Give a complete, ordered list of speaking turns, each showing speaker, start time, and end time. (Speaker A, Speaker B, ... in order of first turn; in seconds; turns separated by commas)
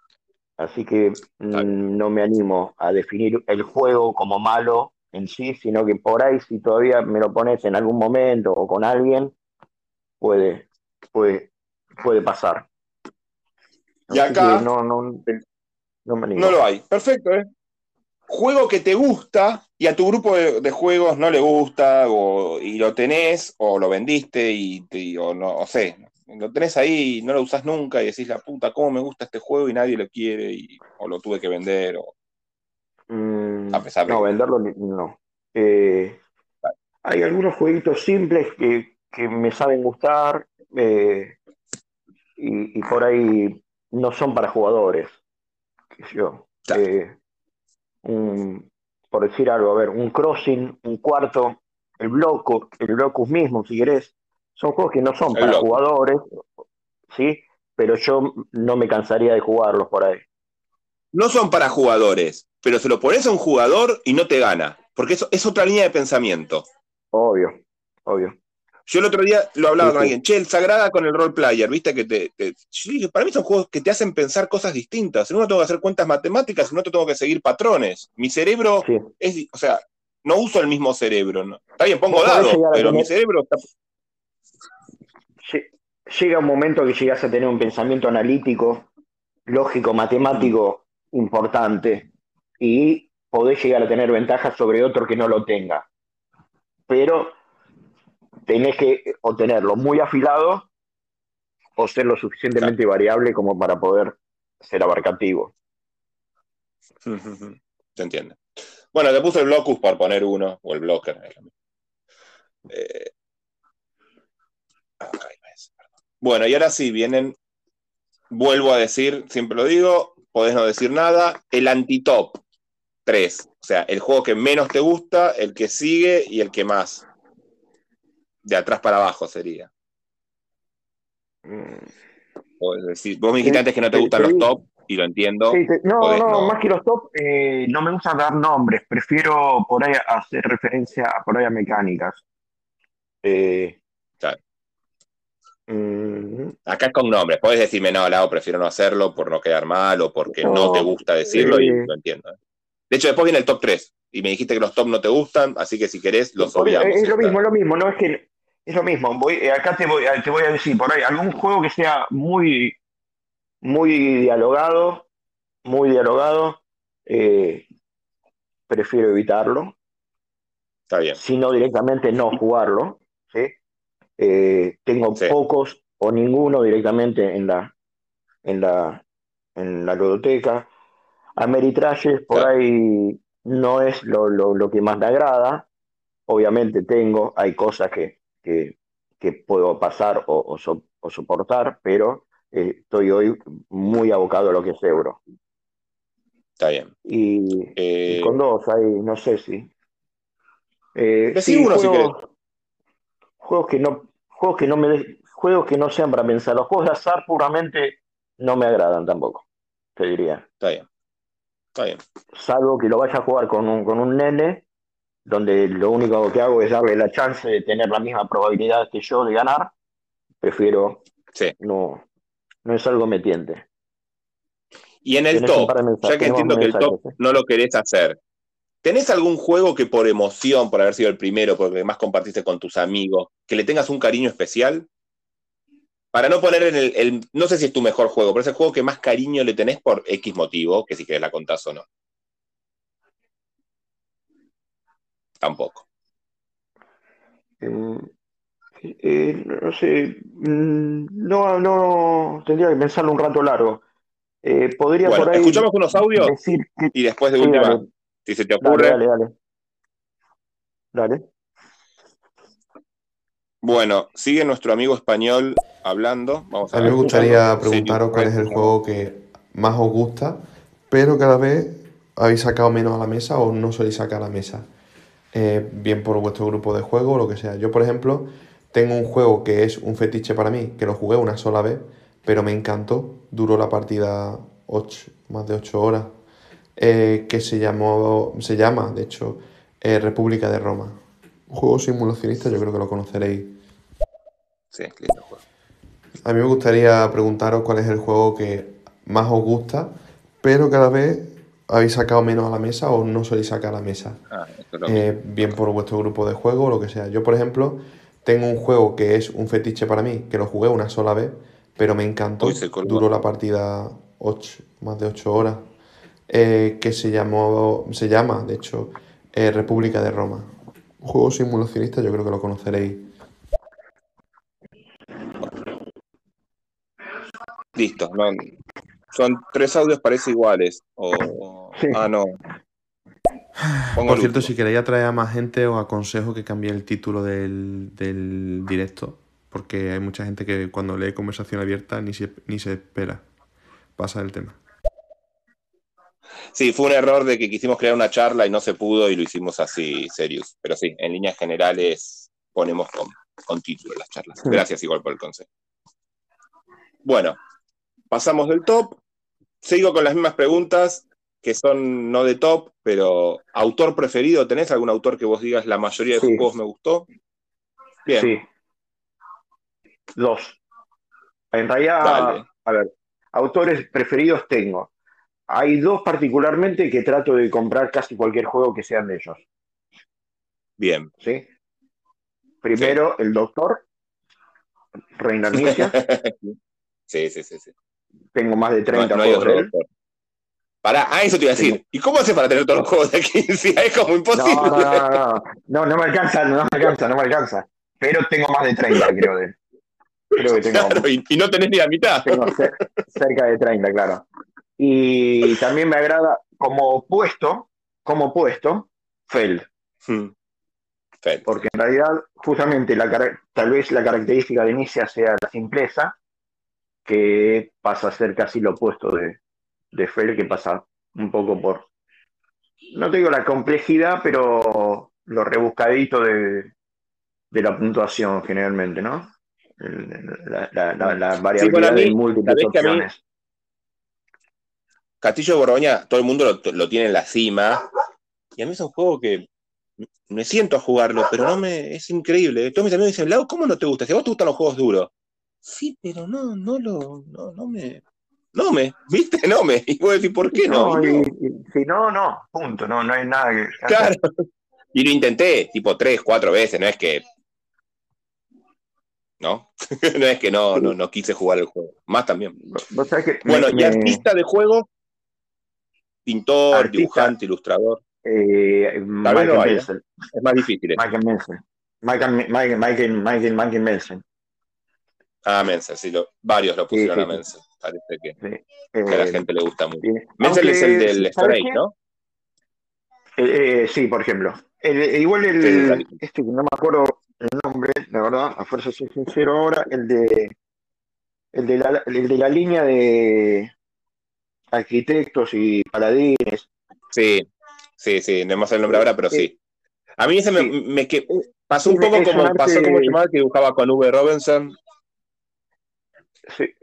Speaker A: 0.6-9.3, Speaker A: 10.2-12.7, Speaker A: 14.1-15.2, Speaker B: 14.1-14.7, Speaker A: 16.1-16.6, Speaker B: 16.4-17.5, Speaker B: 18.3-32.1, Speaker A: 33.1-36.2, Speaker B: 33.7-34.3, Speaker A: 37.0-41.4, Speaker A: 42.4-45.2, Speaker A: 46.0-47.1, Speaker A: 48.0-56.4, Speaker B: 55.3-55.8, Speaker A: 57.1-60.2, Speaker B: 61.1-66.7, Speaker A: 67.1-68.3, Speaker B: 68.8-83.6, Speaker A: 69.8-70.1, Speaker A: 78.8-79.1, Speaker A: 82.1-83.1, Speaker A: 85.4-88.9, Speaker A: 89.5-92.1, Speaker A: 92.6-95.9, Speaker A: 96.9-97.4, Speaker A: 98.5-100.7, Speaker A: 101.8-105.5, Speaker B: 107.0-108.4, Speaker B: 108.9-111.5, Speaker B: 112.7-113.1, Speaker B: 115.0-117.4, Speaker B: 118.3-122.4, Speaker B: 123.0-127.0, Speaker B: 128.4-129.7, Speaker A: 131.4-131.9, Speaker B: 132.6-136.6, Speaker A: 133.4-134.5, Speaker A: 135.5-142.2, Speaker A: 143.2-143.8, Speaker A: 145.7-146.5, Speaker B: 146.7-152.3, Speaker A: 150.4-151.9, Speaker B: 152.9-157.4, Speaker A: 156.4-162.8, Speaker A: 163.6-165.1, Speaker A: 165.6-167.7, Speaker A: 168.7-169.8, Speaker B: 170.9-171.2, Speaker A: 171.1-173.6, Speaker A: 174.2-177.7, Speaker A: 178.4-179.0, Speaker A: 179.6-180.7, Speaker A: 181.4-185.7, Speaker A: 186.3-195.2, Speaker B: 196.6-196.9, Speaker A: 197.0-199.7, Speaker B: 197.8-198.3, Speaker A: 200.9-202.3, Speaker B: 201.3-202.1, Speaker A: 203.4-209.4, Speaker A: 209.9-210.4, Speaker B: 210.6-210.9, Speaker B: 211.7-212.0, Speaker A: 212.3-214.6, Speaker A: 215.2-219.7, Speaker A: 220.4-221.0, Speaker A: 221.6-222.0, Speaker A: 222.6-223.6, Speaker B: 225.0-228.2, Speaker A: 225.3-227.1, Speaker B: 228.8-234.9, Speaker B: 236.1-241.8, Speaker B: 245.4-245.8, Speaker A: 247.6-248.1, Speaker A: 248.8-253.8, Speaker A: 254.4-257.9, Speaker B: 255.1-256.3, Speaker B: 256.9-259.0, Speaker A: 258.6-259.3, Speaker A: 260.9-261.2, Speaker B: 263.6-268.7, Speaker C: 266.7-274.7, Speaker C: 275.3-286.1, Speaker C: 286.8-293.6, Speaker B: 294.7-295.4, Speaker C: 296.2-304.2, Speaker B: 304.3-305.5, Speaker C: 304.9-315.6, Speaker B: 312.4-313.0, Speaker C: 316.3-323.1, Speaker B: 327.7-328.5, Speaker B: 329.1-332.4, Speaker A: 331.7-332.0, Speaker C: 333.9-343.2, Speaker B: 333.9-334.5, Speaker C: 343.9-344.6, Speaker B: 346.5-355.5, Speaker B: 357.0-357.4, Speaker B: 358.1-359.0, Speaker B: 359.6-367.1, Speaker A: 366.2-366.4, Speaker B: 368.1-368.3, Speaker A: 368.1-368.4, Speaker A: 370.1-370.6, Speaker A: 371.5-374.9, Speaker B: 372.0-372.4, Speaker A: 375.5-379.4, Speaker B: 380.8-381.1, Speaker A: 381.2-381.5, Speaker A: 382.6-383.9, Speaker A: 385.2-385.9, Speaker B: 385.5-386.6, Speaker B: 387.1-387.7, Speaker A: 388.3-389.7, Speaker B: 388.9-389.9, Speaker B: 390.8-395.2, Speaker A: 394.3-399.6, Speaker A: 400.3-401.1, Speaker B: 400.4-402.7, Speaker A: 402.2-404.2, Speaker A: 404.8-409.7, Speaker B: 410.1-410.3, Speaker A: 411.4-416.1, Speaker A: 417.1-419.4, Speaker A: 419.9-421.9, Speaker A: 422.9-426.7, Speaker A: 427.5-433.2, Speaker B: 431.0-433.1, Speaker B: 435.2-437.9, Speaker B: 438.6-439.5, Speaker B: 440.3-445.1, Speaker B: 445.6-448.0, Speaker B: 448.5-451.3, Speaker A: 450.6-454.1, Speaker B: 453.9-454.2, Speaker B: 454.9-457.2, Speaker B: 459.4-462.6, Speaker A: 462.7-464.2, Speaker B: 463.4-464.9, Speaker B: 466.2-468.0, Speaker A: 466.7-467.3, Speaker A: 468.2-470.0, Speaker B: 469.2-471.0, Speaker A: 470.9-474.2, Speaker B: 475.4-478.4, Speaker A: 476.9-477.4, Speaker A: 478.4-479.4, Speaker B: 479.1-481.9, Speaker A: 480.0-481.8, Speaker A: 483.4-490.5, Speaker B: 485.6-486.1, Speaker A: 491.5-493.7, Speaker A: 494.7-496.7, Speaker B: 497.1-497.5, Speaker B: 498.0-499.5, Speaker A: 498.9-499.5, Speaker B: 500.2-504.8, Speaker A: 501.8-503.2